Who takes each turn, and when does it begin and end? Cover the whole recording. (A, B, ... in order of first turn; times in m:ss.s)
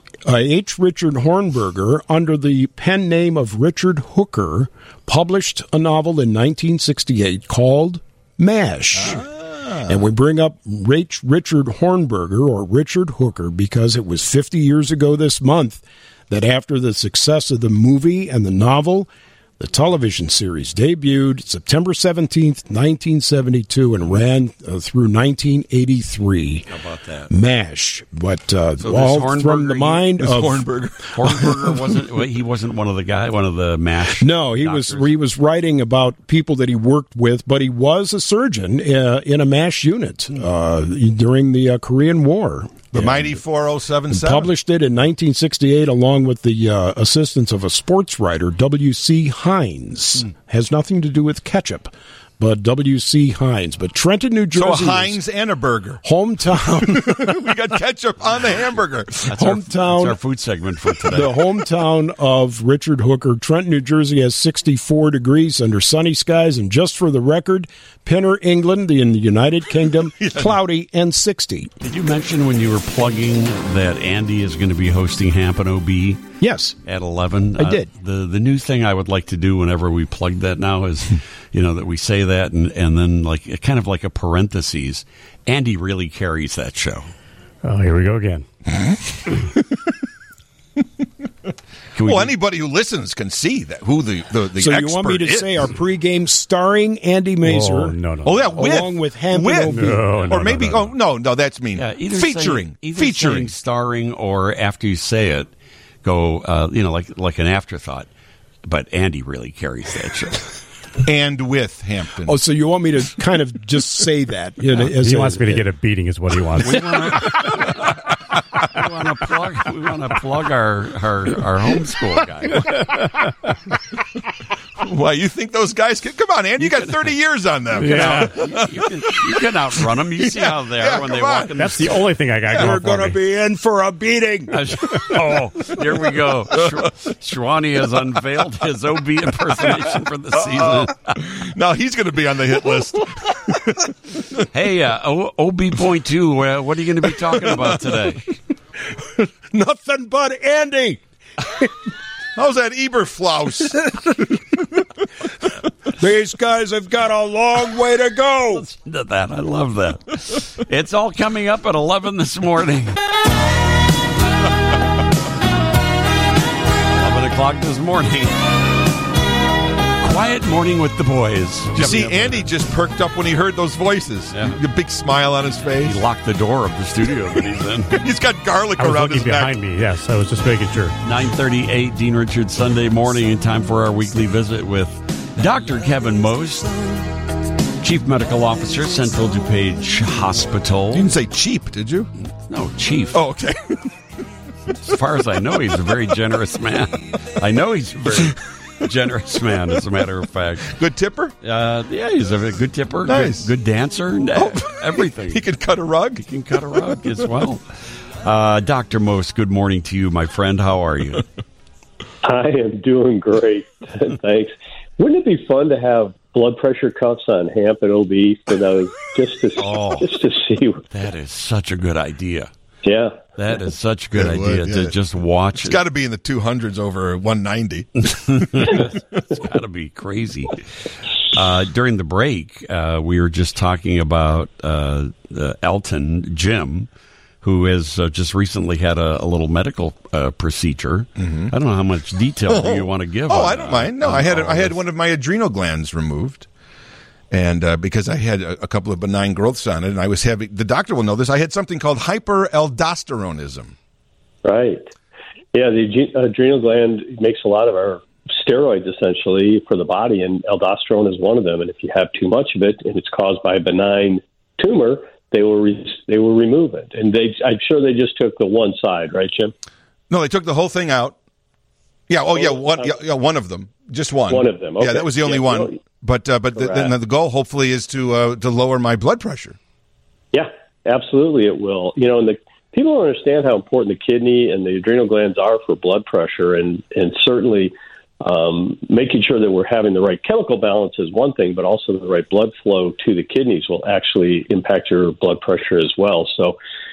0:00.2-0:09.2 A
0:09.0-0:10.0 B
0:09.8-0:26.7 A
0:26.7-0:27.3 C
0:27.3-0:30.7 A
0:28.8-0:30.1 C
0:30.2-0:31.6 B
0:31.1-0:35.1 C
0:34.2-0:43.4 A
0:42.9-0:44.5 B
0:44.1-0:55.2 A
0:54.5-0:56.0 B
0:56.0-0:57.4 A
0:56.8-0:59.3 B
0:59.3-1:01.4 C
0:59.3-1:00.2 A
1:01.1-1:11.7 A
1:11.8-1:16.2 C
1:16.4-1:16.8 A
1:16.8-1:27.1 C
1:17.6-1:17.9 A
1:27.6-1:28.4 D
1:31.9-1:32.3 C
1:32.0-1:35.7 B
1:34.6-1:38.0 A
1:37.4-1:38.6 D
1:38.2-1:43.5 B
1:38.5-1:40.3 A
1:39.7-1:40.9 D
1:41.8-1:45.5 C
1:46.0-1:48.1 C
1:48.6-1:50.4 C
1:51.0-1:52.4 B
1:52.2-1:55.6 A
1:54.9-1:57.3 D
1:56.6-1:58.0 C
1:58.6-2:02.7 C
2:04.8-2:08.8 B
2:07.8-2:08.3 D
2:07.8-2:12.0 C
2:10.2-2:11.9 B
2:11.6-2:13.2 D
2:12.5-2:14.7 A
2:14.5-2:21.2 C
2:20.4-2:23.9 B
2:24.5-2:28.3 C
2:28.9-2:31.0 A
2:32.4-2:33.9 B
2:36.0-2:38.6 A
2:38.5-2:43.0 C
2:46.9-2:48.4 C
2:50.0-2:52.5 C
2:51.7-2:55.9 B
2:54.3-2:54.6 C
2:55.8-2:58.0 C
2:57.9-2:59.6 B
2:58.8-3:01.0 D
3:01.0-3:07.0 C
3:07.8-3:11.1 C
3:10.9-3:12.1 B
3:12.4-3:13.2 C
3:13.1-3:13.9 B
3:14.8-3:20.7 C
3:20.7-3:21.4 B
3:21.4-3:25.4 C
3:23.1-3:23.5 B
3:24.4-3:26.2 B
3:26.2-3:27.6 C
3:28.2-3:31.2 C
3:32.2-3:40.8 E
3:39.6-3:40.1 C
3:40.9-3:42.5 C
3:42.8-3:43.2 E
3:43.4-3:45.8 C
3:44.1-3:44.9 B
3:45.6-3:48.9 B
3:48.3-3:50.6 C
3:51.3-3:56.9 C
3:57.4-4:04.8 C
4:01.2-4:01.5 B
4:02.5-4:06.5 B
4:07.3-4:13.7 B
4:14.4-4:14.9 E
4:15.5-4:29.5 E
4:30.1-4:31.2 B
4:32.1-4:39.6 B
4:32.3-4:33.0 E
4:34.3-4:35.8 E
4:36.6-4:36.9 E
4:40.3-4:56.6 E